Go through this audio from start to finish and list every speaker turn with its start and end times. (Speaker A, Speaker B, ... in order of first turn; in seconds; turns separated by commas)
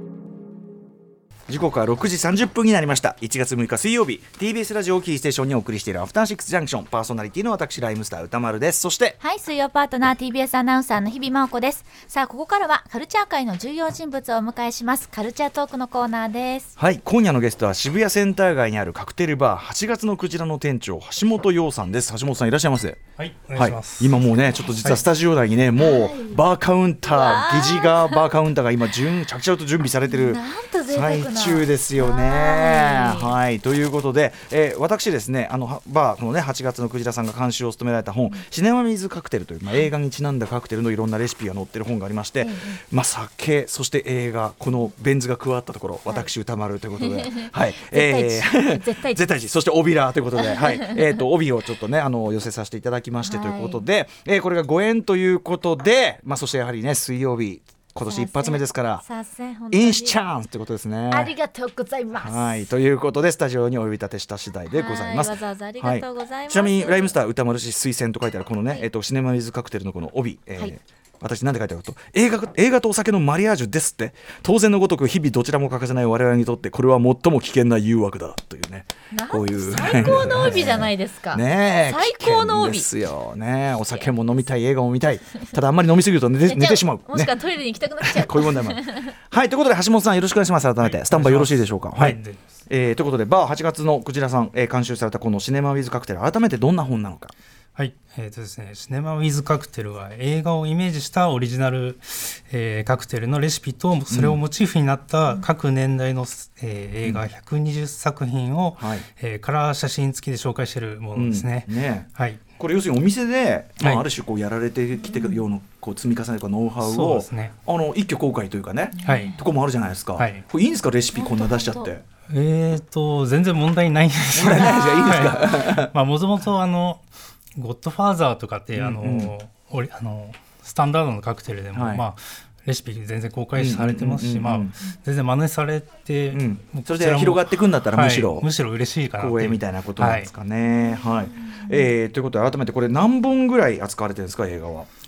Speaker A: 1.5-9.2, Speaker B: 9.2-16.8, Speaker A: 16.8-23.0, Speaker C: 23.2-24.2, Speaker A: 23.6-59.0, Speaker B: 25.8-26.4, Speaker B: 27.1-28.2, Speaker B: 30.1-33.4, Speaker B: 42.4-42.8, Speaker B: 47.0-49.2, Speaker B: 50.5-51.0, Speaker B: 53.2-53.8, Speaker B: 58.1-60.2, Speaker A: 59.7-61.3, Speaker B: 61.1-62.7, Speaker A: 62.1-87.3, Speaker B: 64.7-67.2, Speaker B: 79.1-82.9, Speaker B: 86.5-89.1, Speaker A: 88.0-97.3, Speaker C: 90.8-92.5, Speaker C: 97.8-112.4, Speaker A: 104.1-104.4, Speaker A: 108.8-109.0, Speaker A: 111.2-122.0, Speaker C: 113.8-114.1, Speaker B: 115.0-115.4, Speaker C: 116.8-117.5, Speaker B: 119.0-119.4, Speaker C: 119.0-119.3, Speaker C: 120.2-120.5, Speaker B: 121.2-121.9, Speaker C: 122.3-127.0, Speaker A: 124.3-125.9, Speaker B: 124.5-125.7, Speaker C: 127.6-140.3, Speaker A: 128.8-129.3, Speaker A: 131.7-132.1, Speaker A: 133.6-134.8, Speaker A: 136.3-138.5, Speaker A: 139.2-144.9, Speaker B: 140.6-141.9